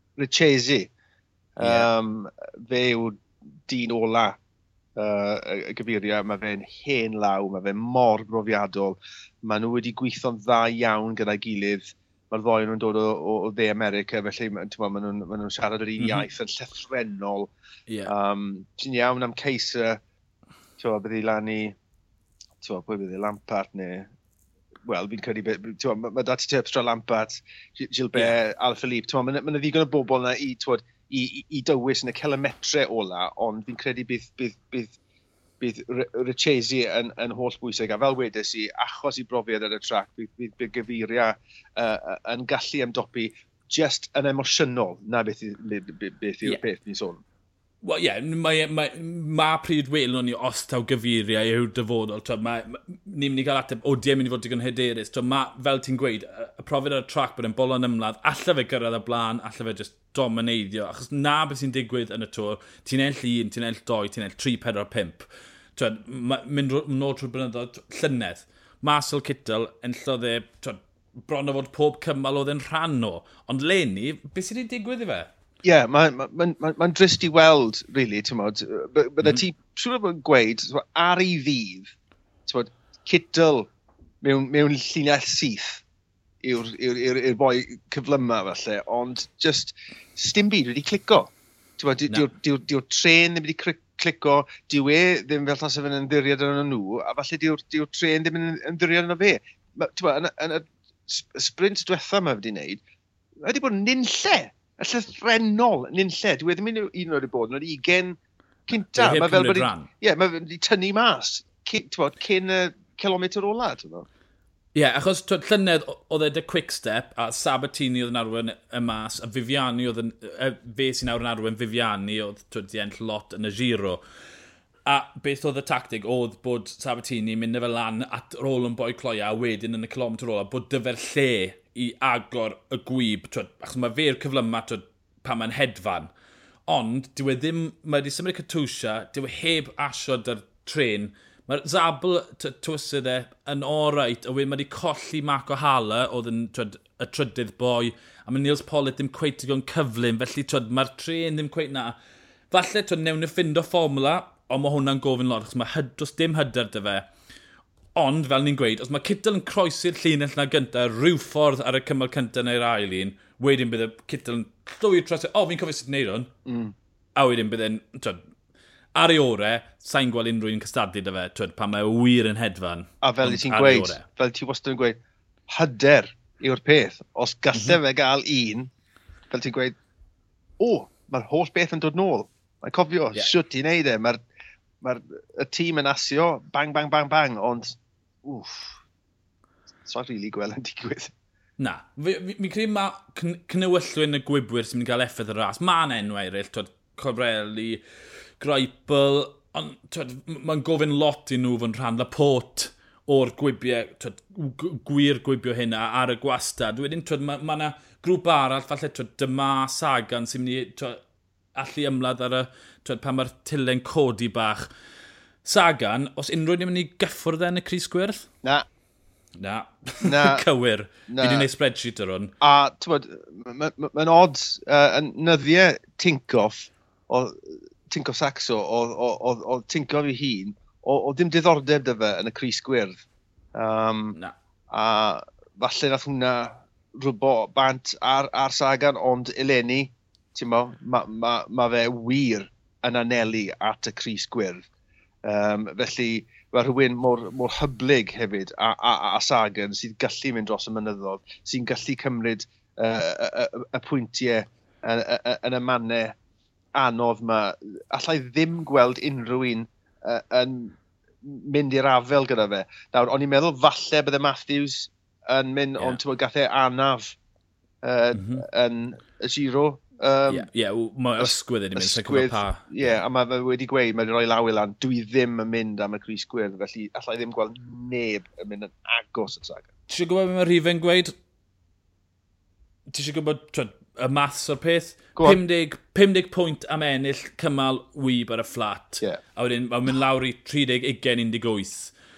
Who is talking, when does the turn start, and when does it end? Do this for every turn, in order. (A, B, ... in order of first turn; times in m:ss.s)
0:00.2-0:00.9 A
0:01.6-0:04.4 A
0:01.6-0:01.9 B
0:05.0-0:17.5 A
0:16.0-0:16.3 B
0:18.0-0:20.0 A
0:20.8-0:21.7 A
0:22.6-0:24.1 A
0:24.9-0:35.0 A
0:35.6-0:47.2 A
0:47.8-1:15.3 B
1:15.6-1:21.9 A
1:22.5-1:23.7 A
1:24.2-1:25.8 A
1:26.4-1:42.8 A
1:43.4-1:54.1 A
1:48.9-1:49.9 B
1:54.7-2:04.0 B
2:04.8-2:16.1 B
2:16.7-2:32.0 B
2:32.5-2:37.1 B
2:37.9-2:46.3 B
2:46.4-2:46.7 A
2:47.2-2:48.2 B
2:48.9-2:54.0 B
2:53.0-2:58.7 A
2:59.3-2:59.7 A
3:00.6-3:04.2 A
3:04.8-3:08.8 A
3:09.8-3:11.1 A
3:11.6-3:17.8 B
3:18.4-3:31.0 B
3:31.5-3:34.6 B
3:35.4-3:38.3 B
3:39.4-3:42.3 B
3:40.0-3:40.4 A
3:41.1-3:41.5 A
3:42.4-3:47.4 A
3:47.9-3:53.0 A
3:53.5-3:54.2 A
3:54.7-4:04.6 A
4:05.2-4:16.1 A
4:16.8-4:27.2 A
4:27.8-4:30.5 A
4:28.1-4:28.4 B
4:30.3-4:32.9 B
4:31.2-4:39.7 A
4:39.9-4:41.1 B
4:42.9-4:51.9 B